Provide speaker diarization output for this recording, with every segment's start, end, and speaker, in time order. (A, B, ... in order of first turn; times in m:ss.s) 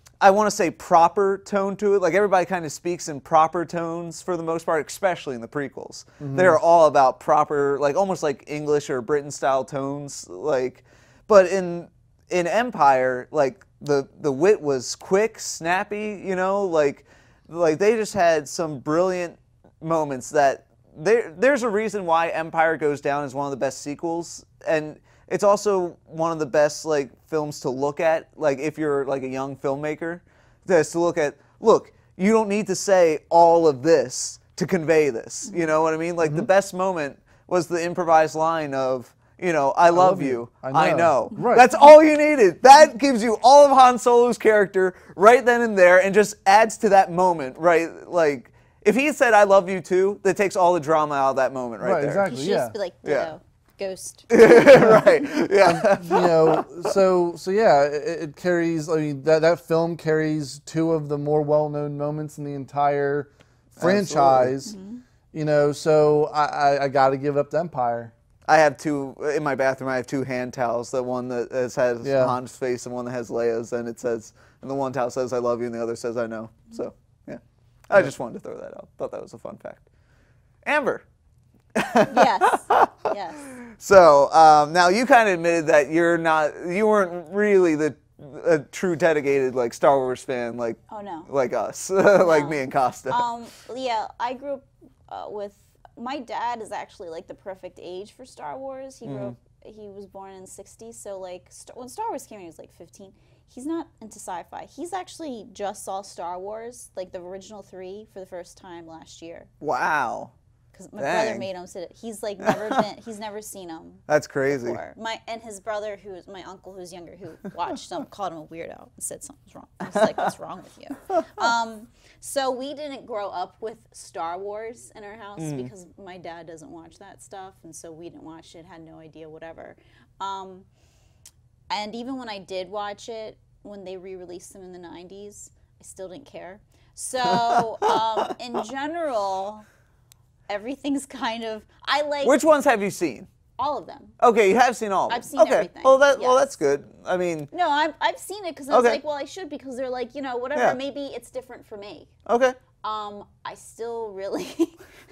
0:00.2-0:52.3 A
0:06.2-0:06.6 B
0:36.2-0:36.5 B
0:39.9-0:41.7 B
0:51.8-0:52.8 B
0:52.2-0:55.0 C
0:53.0-0:53.3 A
0:54.3-0:56.7 A
0:54.6-0:55.1 B
0:55.6-1:04.8 B
1:03.8-1:04.5 A
1:04.6-1:05.0 C
1:05.3-1:08.1 B
1:08.5-1:19.8 A
1:12.0-1:12.4 B
1:20.6-1:21.0 A
1:21.7-1:33.2 A
1:22.1-1:23.4 C
1:30.9-1:31.3 C
1:32.2-1:49.5 C
1:39.0-1:39.3 A
1:49.6-1:50.3 A
1:50.7-2:10.6 C
1:51.0-1:51.4 A
1:52.4-1:52.8 A
1:54.1-1:54.8 A
2:01.2-2:01.5 A
2:05.4-2:05.7 A
2:11.7-2:19.6 C
2:17.3-2:18.3 A
2:20.5-2:22.4 C
2:22.2-2:23.3 A
2:23.6-2:24.1 C
2:24.2-2:27.5 A
2:25.1-2:26.5 C
2:27.5-2:32.1 C
2:28.7-2:29.0 A
2:32.3-2:32.6 A
2:32.8-2:34.8 C